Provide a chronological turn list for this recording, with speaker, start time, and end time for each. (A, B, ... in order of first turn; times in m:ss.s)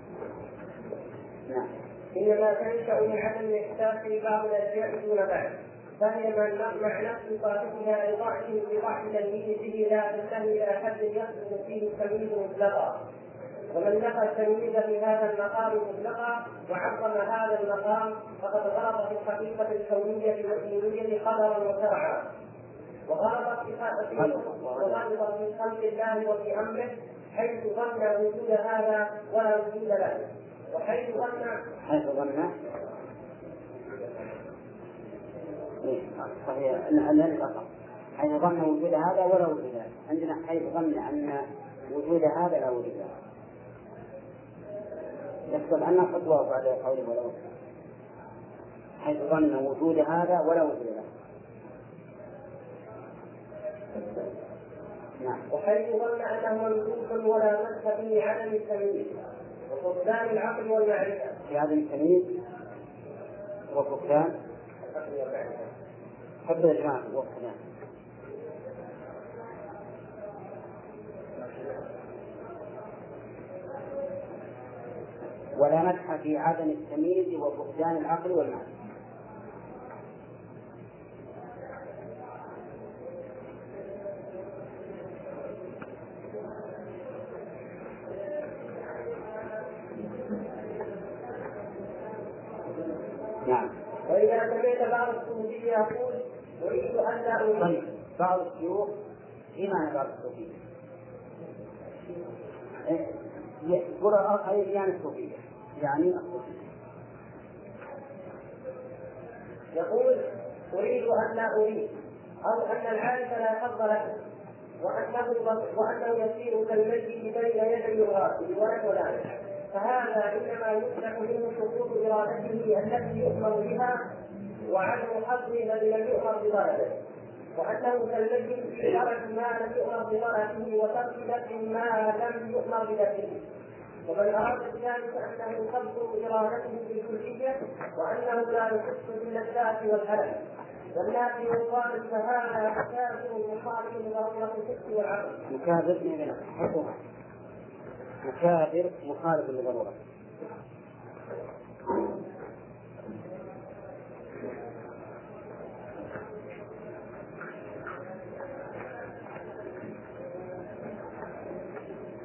0:02.1-0:13.0 A
0:13.7-0:22.2 A
0:23.1-0:31.6 A
0:24.1-0:25.0 B
0:31.8-0:32.5 B
0:35.8-0:37.7 B
0:38.2-0:43.1 B
0:45.5-0:47.5 B
0:49.0-0:51.0 B
0:55.5-0:59.1 A
0:59.7-1:01.3 A
1:01.4-1:02.3 B
1:03.7-1:04.3 B
1:04.9-1:05.6 A
1:06.4-1:07.6 B
1:15.6-1:18.7 B
1:33.4-1:33.7 B
1:34.0-1:37.8 A
1:37.6-1:38.9 B
1:39.5-1:40.6 B
1:42.8-1:46.6 B
1:49.7-1:54.2 A
1:54.8-2:04.0 A
2:04.7-2:07.0 A
2:07.5-2:13.4 A
2:14.0-2:25.4 A
2:25.5-2:27.0 B
2:28.2-2:30.0 B